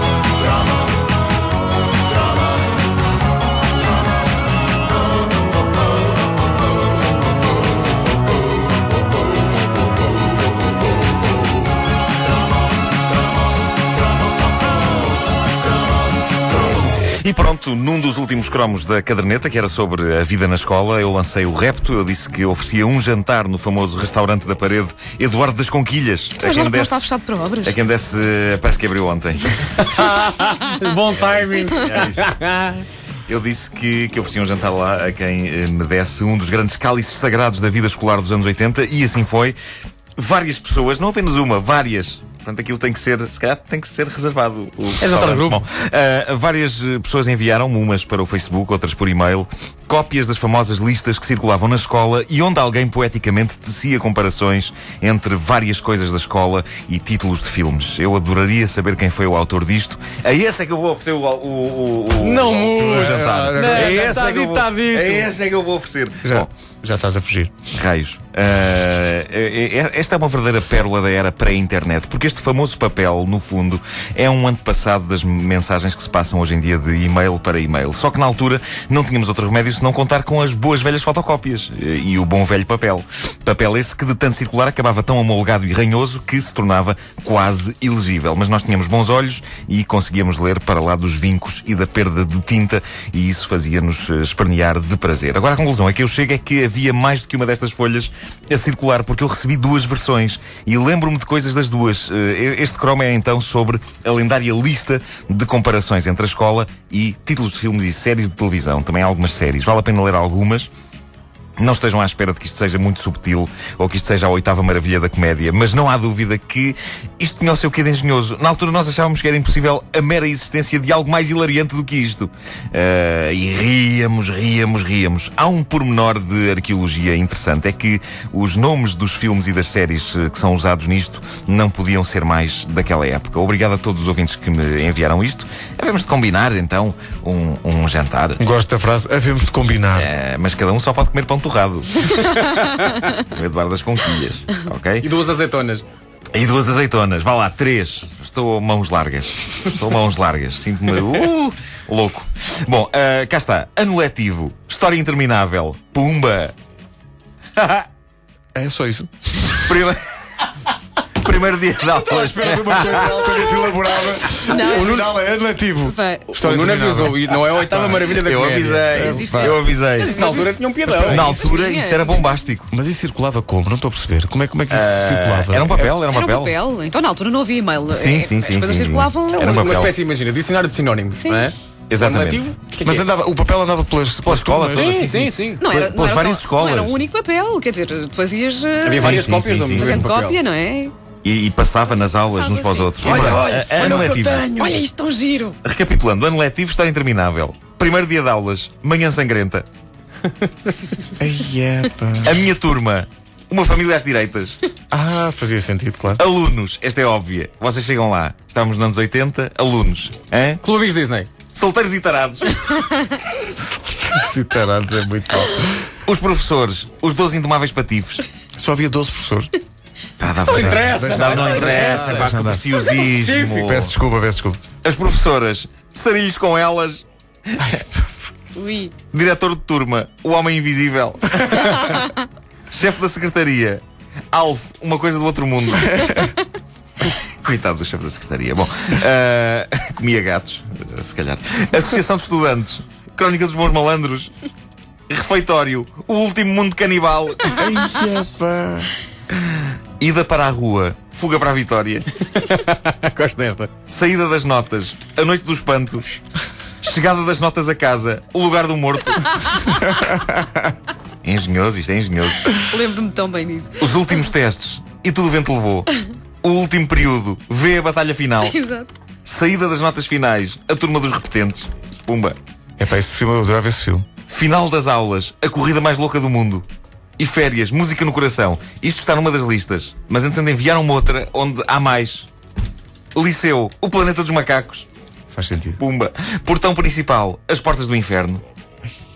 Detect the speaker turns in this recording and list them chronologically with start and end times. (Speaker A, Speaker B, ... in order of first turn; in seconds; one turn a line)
Speaker A: 17.0-27.1
Speaker B: 26.4-27.7
Speaker A: 27.6-29.9
Speaker C: 29.8-32.8
Speaker A: 31.6-32.3
Speaker A: 33.3-39.6
Speaker A: 40.2-66.5
Speaker C: 45.0-45.6
Speaker C: 62.2-65.3
Speaker D: 62.7-64.1
Speaker D: 66.2-67.5
Speaker A: 67.7-110.7
Speaker A: 111.6-138.4
Speaker D: 138.4-140.1
Speaker A: 139.9-142.1
Speaker C: 142.1-143.1
Speaker A: 143.1-145.1
Speaker C: 145.0-145.8
Speaker A: 146.3-156.5
Speaker A: 157.6-157.8
Speaker D: 158.5-159.6
Speaker A: 159.6-160.0
Speaker A: 161.1-163.7
Speaker D: 161.9-168.1
Speaker B: 164.4-165.1
Speaker C: 164.5-165.1
Speaker B: 165.8-166.3
Speaker C: 166.3-169.0
Speaker A: 168.2-170.4
Speaker D: 168.9-169.6
Speaker B: 169.0-170.6
Speaker C: 170.0-171.4
Speaker D: 170.9-171.3
Speaker A: 170.9-172.7
Speaker B: 171.2-172.3
Speaker D: 172.7-175.9
Speaker A: 174.7-176.5
Speaker B: 176.1-179.6
Speaker A: 177.9-179.9
Speaker C: 179.3-183.1
Speaker B: 181.2-181.5
Speaker A: 181.9-182.5
Speaker D: 182.8-185.1
Speaker A: 184.2-187.0
Speaker C: 184.8-185.6
Speaker B: 185.6-190.9
Speaker C: 188.8-190.4
Speaker A: 188.9-190.1
Speaker A: 191.2-194.5
Speaker B: 192.0-193.5
Speaker C: 193.0-195.2
Speaker B: 194.6-195.6
Speaker A: 195.6-199.7
Speaker D: 201.2-202.4
Speaker A: 202.2-204.6
Speaker D: 204.9-206.2
Speaker A: 206.2-210.6
Speaker C: 210.6-211.3
Speaker A: 211.5-212.9
Speaker D: 213.8-215.7
Speaker A: 216.1-218.2
Speaker D: 218.6-219.5
Speaker A: 220.2-223.9
Speaker C: 220.3-223.6
Speaker D: 220.5-222.8
Speaker D: 223.5-224.6
Speaker A: 224.8-227.9
Speaker B: 228.5-228.9
Speaker A: 229.1-232.0
Speaker A: 232.7-236.3
Speaker A: 237.2-244.3
Speaker A: 245.1-247.9
Speaker D: 247.5-248.9
Speaker A: 249.4-252.2
Speaker C: 252.2-253.7
Speaker A: 253.9-256.1
Speaker A: 256.8-259.9
Speaker D: 259.9-260.4
Speaker A: 261.2-262.6
Speaker B: 262.7-263.8
Speaker A: 263.8-268.6
Speaker B: 268.4-268.9
Speaker A: 269.2-272.4
Speaker D: 272.8-274.1
Speaker A: 274.3-276.6
Speaker A: 277.2-282.3
Speaker A: 283.1-284.9
Speaker D: 285.3-285.8
Speaker A: 285.8-288.4